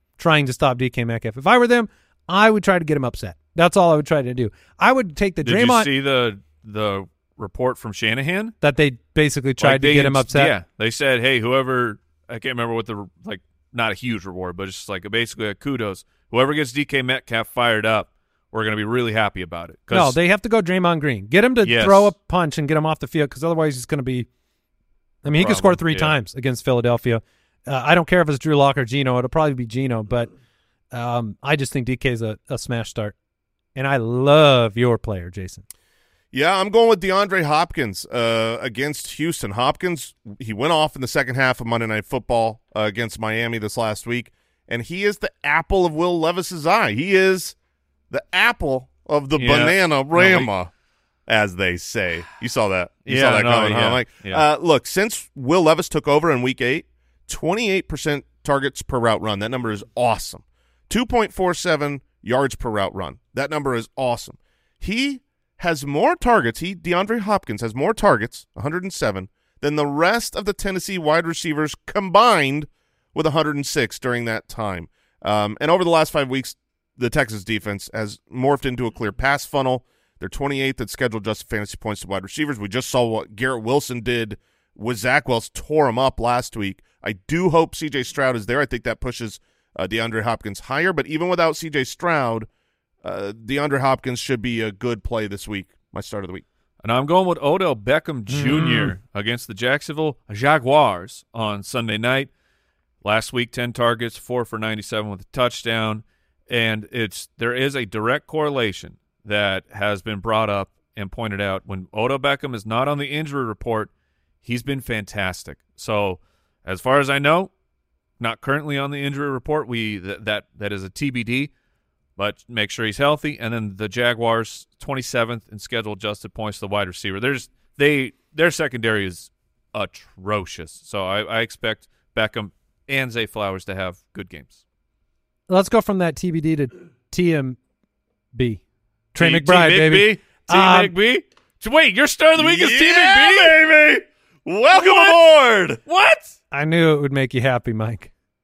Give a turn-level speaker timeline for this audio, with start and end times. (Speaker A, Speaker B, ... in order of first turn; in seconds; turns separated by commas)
Speaker A: 0.2-5.9, Speaker B: 5.4-8.6, Speaker A: 8.6-10.6, Speaker B: 9.6-20.2, Speaker A: 19.9-24.3, Speaker B: 21.6-22.1, Speaker A: 25.2-30.3, Speaker B: 25.3-26.2, Speaker A: 30.9-33.1, Speaker A: 33.8-35.6, Speaker C: 36.3-47.6, Speaker C: 48.1-50.7, Speaker B: 49.4-50.5, Speaker C: 51.3-92.5, Speaker B: 53.1-54.5, Speaker C: 93.0-96.5, Speaker B: 96.8-102.3, Speaker A: 98.3-98.9, Speaker B: 103.0-113.9, Speaker B: 114.4-117.5, Speaker B: 118.2-121.5, Speaker B: 122.2-134.6, Speaker A: 135.5-137.6, Speaker A: 138.3-138.6, Speaker A: 139.1-140.9, Speaker B: 139.2-143.6, Speaker C: 142.4-145.8, Speaker B: 144.7-145.2, Speaker B: 145.9-146.3, Speaker A: 146.5-148.1